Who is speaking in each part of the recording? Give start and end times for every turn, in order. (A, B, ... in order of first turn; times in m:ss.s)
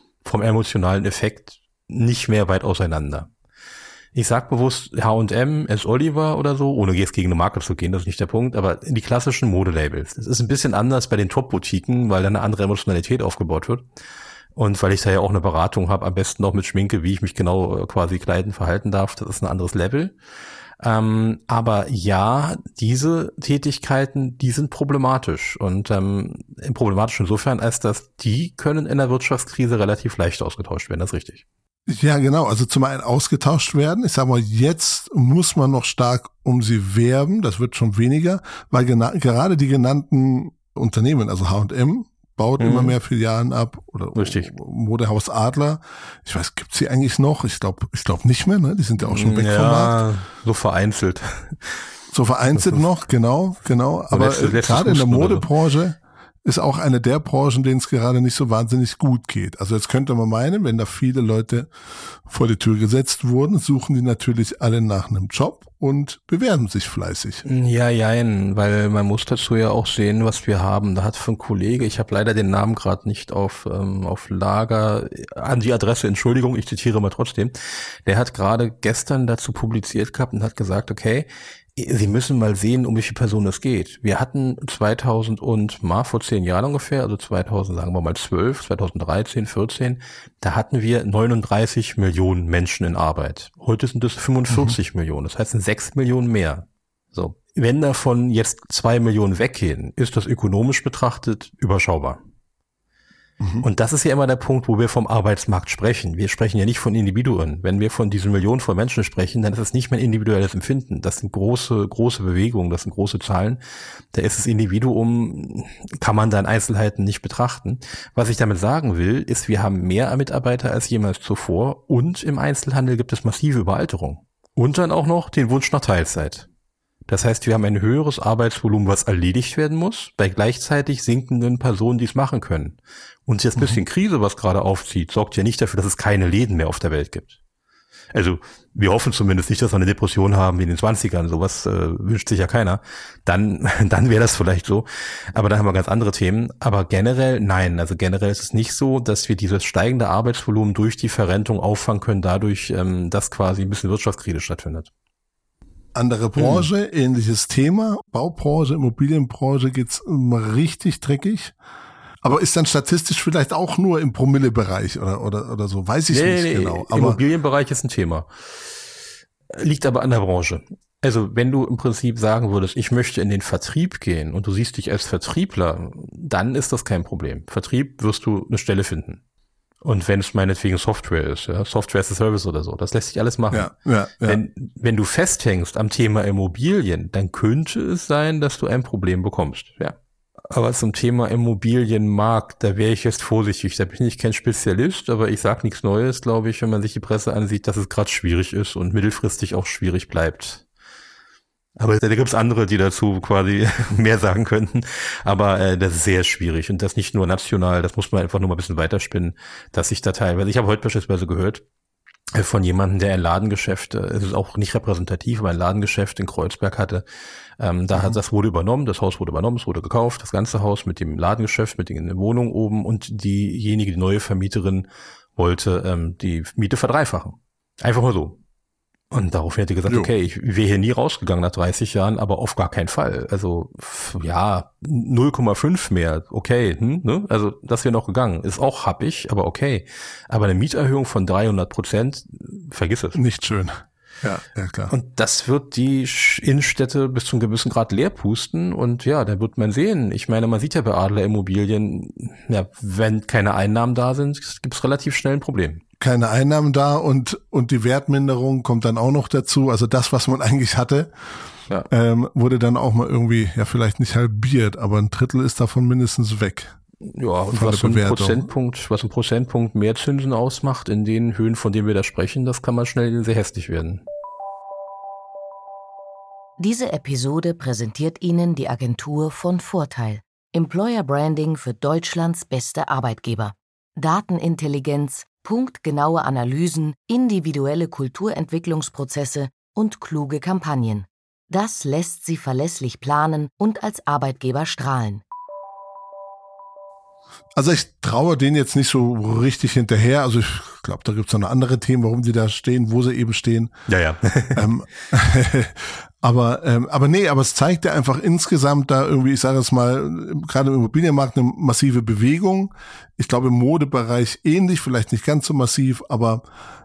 0:00.2-0:03.3 A
0:04.1-0:13.8 A
0:14.6-0:20.1 A
0:20.8-0:31.4 A
0:31.9-0:50.0 B
0:42.6-0:43.0 A
0:44.1-0:44.5 A
0:49.0-0:51.8 A
0:52.1-1:01.7 B
0:52.5-0:52.8 A
0:54.1-0:55.5 A
1:02.3-1:07.4 B
1:07.4-1:42.2 A
1:43.4-1:43.6 B
1:43.6-1:53.6 A
1:54.1-2:06.5 A
2:07.1-2:17.4 A
2:13.6-2:13.8 B
2:18.1-2:34.9 A
2:36.0-2:41.5 B
2:36.4-2:36.7 A
2:42.2-2:47.2 B
2:46.1-2:48.3 A
2:49.5-2:59.2 A
2:59.8-3:09.9 A
3:03.5-3:04.4 B
3:10.5-3:20.6 A
3:21.8-3:31.6 A
3:32.3-3:37.0 A
3:37.6-3:48.4 A
3:37.9-3:38.2 B
3:49.1-4:03.2 A
4:03.1-4:04.9 B
4:04.9-4:15.8 A
4:16.0-4:21.1 B
4:21.9-4:26.7 B
4:27.1-4:34.0 A
4:27.5-4:28.5 B
4:36.6-4:55.2 C
4:57.6-5:03.7 B
5:03.9-5:04.7 A
5:04.5-5:16.4 B